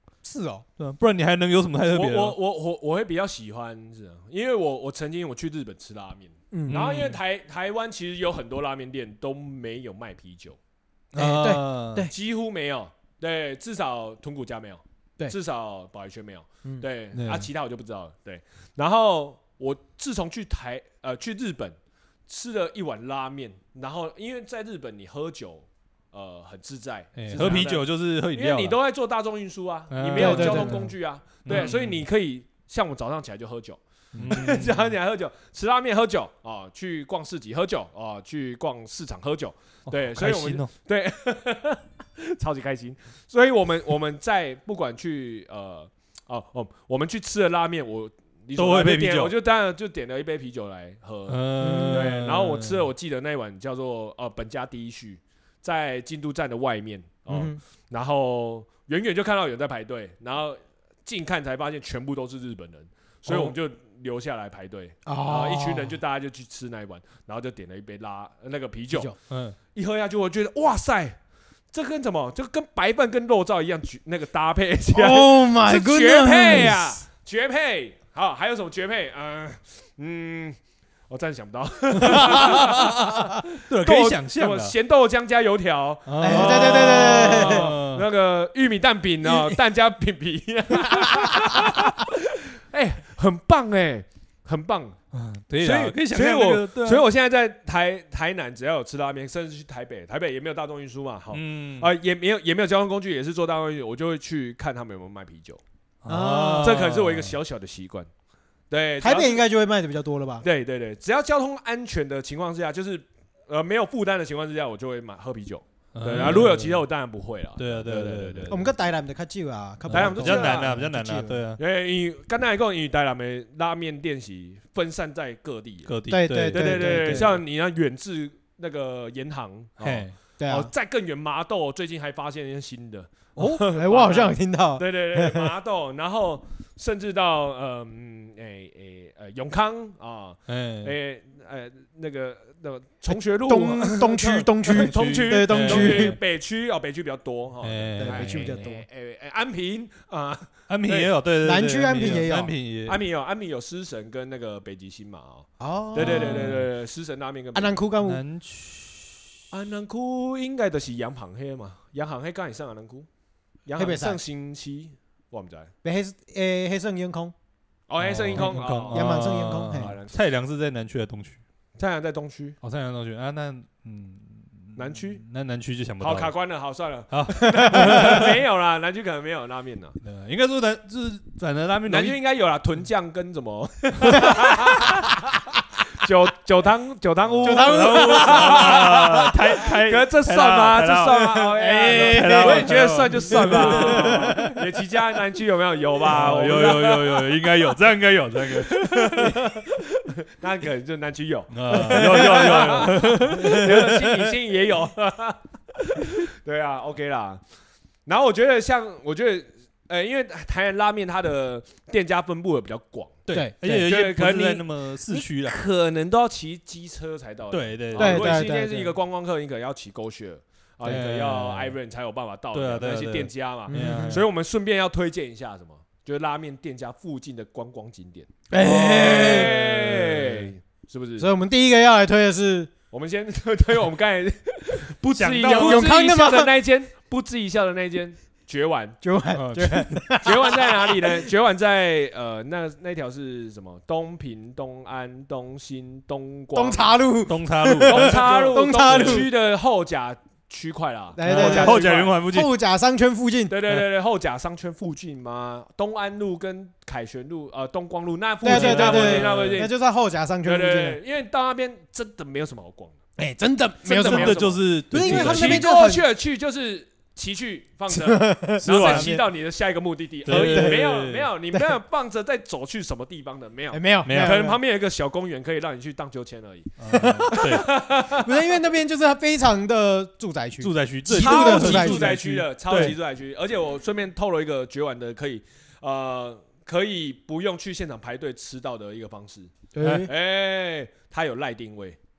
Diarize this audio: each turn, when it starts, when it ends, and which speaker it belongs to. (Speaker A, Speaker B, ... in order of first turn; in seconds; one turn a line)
Speaker A: 0.2-0.6
Speaker B: 0.8-2.4
Speaker C: 1.9-10.6
Speaker A: 6.5-6.8
Speaker B: 6.7-7.2
Speaker B: 11.1-12.1
Speaker A: 11.2-12.1
Speaker C: 12.1-21.8
Speaker B: 17.1-17.5
Speaker C: 22.3-69.1
Speaker B: 27.1-28.8
Speaker B: 29.9-30.9
Speaker A: 30.1-30.8
Speaker B: 31.4-32.0
Speaker B: 34.1-34.9
Speaker B: 39.9-40.7
Speaker B: 48.5-49.3
Speaker B: 51.3-52.9
Speaker A: 51.6-52.1
Speaker A: 57.3-57.6
Speaker B: 63.3-63.5
Speaker A: 65.0-65.9
Speaker B: 69.3-69.5
Speaker C: 69.7-71.2
Speaker C: 71.7-80.6
Speaker A: 74.9-77.0
Speaker C: 81.1-95.0
Speaker B: 82.0-84.7
Speaker B: 86.1-88.0
Speaker A: 86.2-87.7
Speaker B: 95.1-97.0
Speaker C: 95.6-105.6
Speaker B: 101.3-101.9
Speaker B: 106.0-107.3
Speaker A: 106.1-106.8
Speaker C: 106.6-108.1
Speaker C: 108.7-109.4
Speaker A: 109.0-110.4
Speaker C: 110.4-118.5
Speaker B: 115.9-116.8
Speaker A: 116.1-116.4
Speaker B: 117.5-118.7
Speaker A: 118.5-121.4
Speaker B: 119.9-121.6
Speaker C: 119.9-120.7
Speaker C: 121.6-125.9
Speaker B: 125.8-127.4
Speaker A: 126.1-127.3
Speaker C: 126.5-151.1
Speaker B: 129.8-130.1
Speaker A: 130.4-130.7
Speaker B: 133.3-133.6
Speaker A: 133.7-135.5
Speaker B: 140.5-140.9
Speaker A: 143.1-146.2
Speaker B: 144.7-146.2
Speaker B: 147.6-148.6
Speaker A: 148.0-148.8
Speaker B: 150.7-153.0
Speaker A: 151.4-152.5
Speaker C: 152.8-157.8
Speaker A: 155.6-156.5
Speaker B: 156.0-156.7
Speaker A: 157.5-158.2
Speaker B: 158.0-159.2
Speaker C: 159.5-163.1
Speaker C: 163.7-165.7
Speaker A: 163.8-164.2
Speaker A: 165.8-167.3
Speaker C: 167.9-170.2
Speaker B: 168.0-171.4
Speaker A: 168.4-169.9
Speaker C: 171.8-172.6
Speaker B: 172.6-176.3
Speaker C: 174.8-175.2
Speaker C: 176.0-180.0
Speaker B: 177.1-178.4
Speaker A: 177.4-178.2
Speaker B: 180.0-182.2
Speaker C: 181.9-197.5
Speaker B: 187.3-191.2
Speaker A: 187.4-188.9
Speaker A: 191.2-194.6
Speaker B: 191.9-194.6
Speaker B: 196.0-199.5
Speaker C: 198.6-207.4
Speaker B: 201.5-204.3
Speaker C: 208.1-231.3
Speaker B: 213.3-215.6
Speaker A: 213.3-213.8
Speaker B: 217.5-218.5
Speaker A: 217.9-218.9
Speaker B: 220.8-221.7
Speaker B: 222.5-224.3
Speaker A: 223.7-224.2
Speaker A: 228.5-229.5
Speaker B: 228.6-230.5
Speaker A: 231.2-232.7
Speaker C: 232.9-239.0
Speaker B: 235.1-235.9
Speaker A: 235.4-236.5
Speaker A: 239.0-241.2
Speaker B: 239.3-240.0
Speaker C: 240.2-246.9
Speaker A: 246.5-249.3
Speaker B: 247.3-249.2
Speaker C: 247.8-252.2
Speaker A: 251.1-253.5
Speaker B: 251.2-252.5
Speaker C: 253.5-259.7
Speaker A: 258.4-261.0
Speaker B: 258.4-259.6
Speaker C: 260.4-262.9
Speaker A: 263.2-266.0
Speaker C: 263.8-278.3
Speaker B: 264.0-265.7
Speaker A: 267.9-269.2
Speaker B: 268.6-269.2
Speaker B: 270.2-271.3
Speaker A: 270.3-270.8
Speaker A: 273.7-274.6
Speaker B: 274.0-274.4
Speaker B: 276.8-277.7
Speaker A: 276.9-282.1
Speaker B: 280.6-282.9
Speaker C: 281.1-289.5
Speaker A: 289.7-290.1
Speaker B: 289.8-290.1
Speaker C: 290.1-292.0